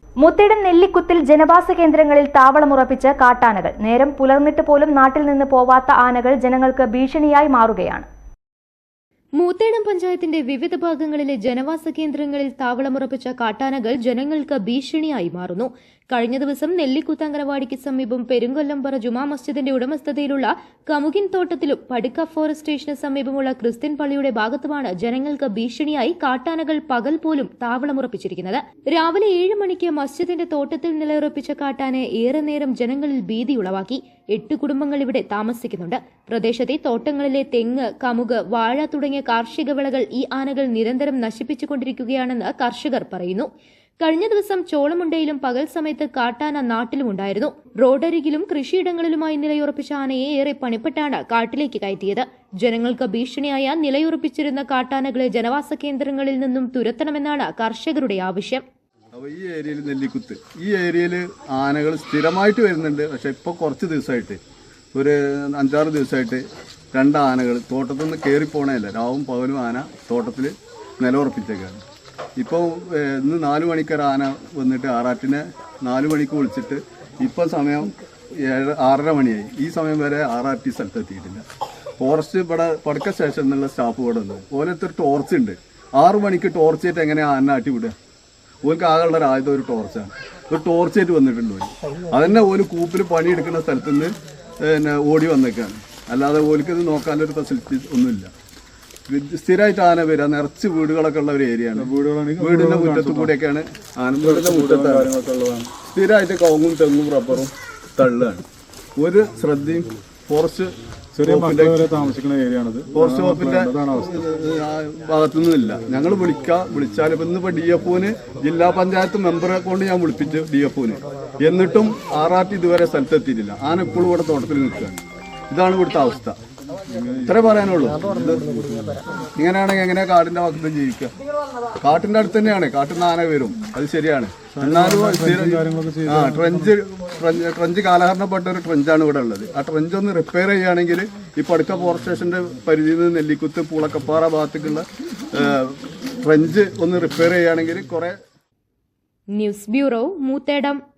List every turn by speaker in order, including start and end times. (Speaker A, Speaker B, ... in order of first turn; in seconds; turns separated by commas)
Speaker A: 0.2-8.1, Speaker B: 9.4-43.5, Speaker B: 44.0-58.6, Speaker C: 59.1-64.4, Speaker C: 64.9-71.8, Speaker C: 72.4-81.4, Speaker C: 82.0-87.9, Speaker C: 88.6-98.3, Speaker C: 99.1-105.1, Speaker D: 101.8-103.3, Speaker D: 104.2-105.7, Speaker C: 105.8-108.4, Speaker C: 109.0-110.7, Speaker D: 111.1-114.2, Speaker C: 111.2-111.8, Speaker C: 112.9-125.0, Speaker C: 125.5-126.4, Speaker D: 126.9-127.5, Speaker C: 127.3-128.4, Speaker D: 128.6-128.9, Speaker C: 129.4-131.1, Speaker C: 131.8-148.2, Speaker D: 134.5-136.7, Speaker B: 149.3-150.8